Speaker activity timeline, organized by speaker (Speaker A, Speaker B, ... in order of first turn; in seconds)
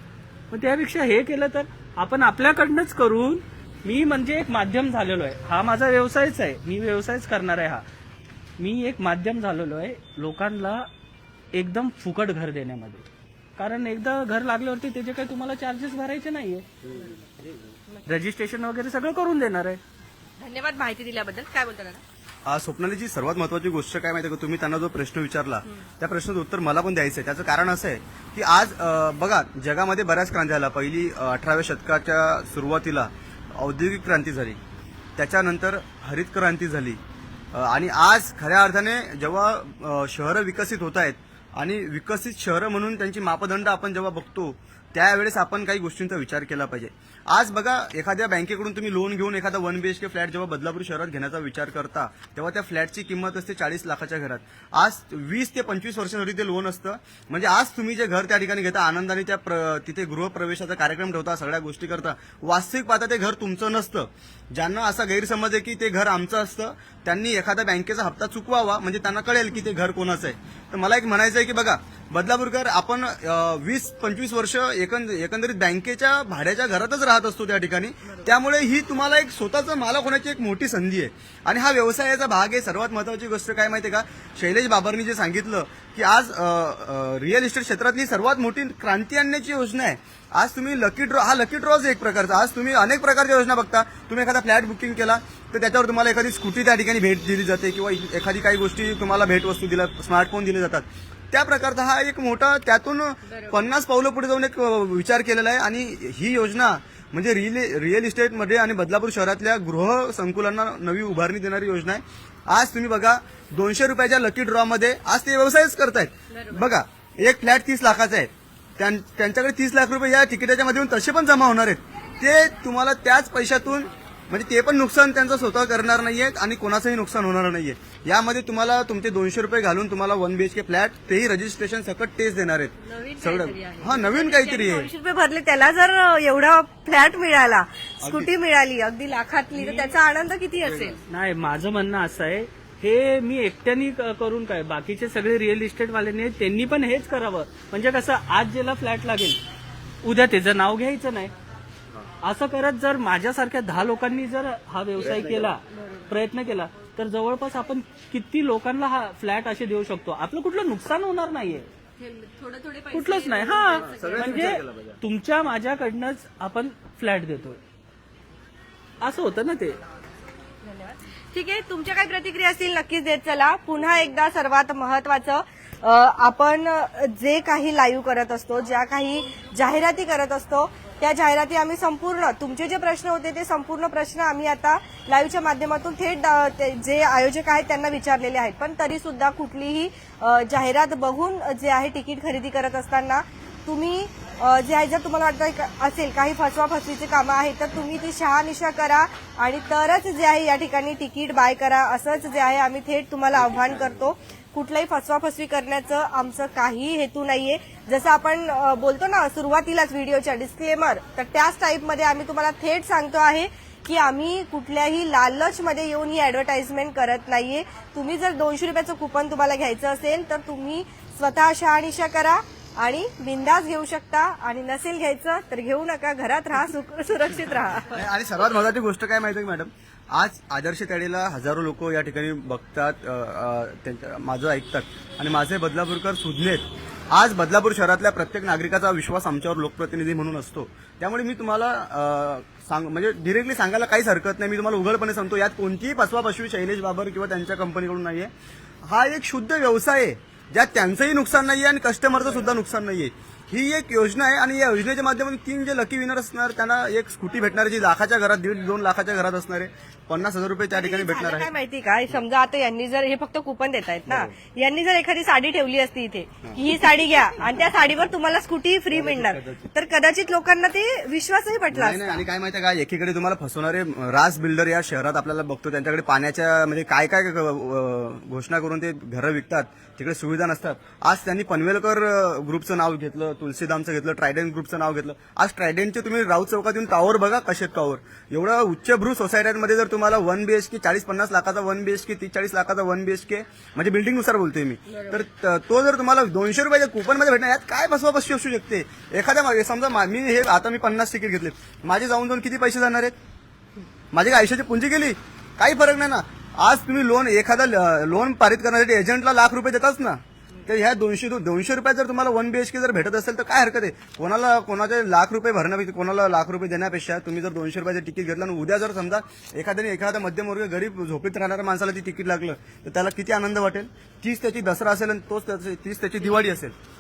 Speaker A: 0.5-7.8, 8.6-10.9, 11.5-13.1, 13.6-16.7, 18.1-19.8, 139.5-140.0, 141.1-149.4, 150.0-151.3, 152.2-161.7, 162.9-167.6, 169.0-169.8
Speaker B: 16.9-17.2, 20.4-22.0, 103.2-103.6, 116.3-116.7, 132.8-141.0, 155.8-156.1, 162.0-164.6, 170.6-228.0, 260.7-272.2, 294.9-295.2
Speaker C: 22.5-34.6, 35.2-37.0, 37.5-134.9, 138.0-138.3, 155.0-155.5, 163.8-165.0, 203.3-204.1, 227.8-248.3, 248.9-261.5, 264.1-264.3, 268.9-269.7, 271.7-303.1, 304.1-326.7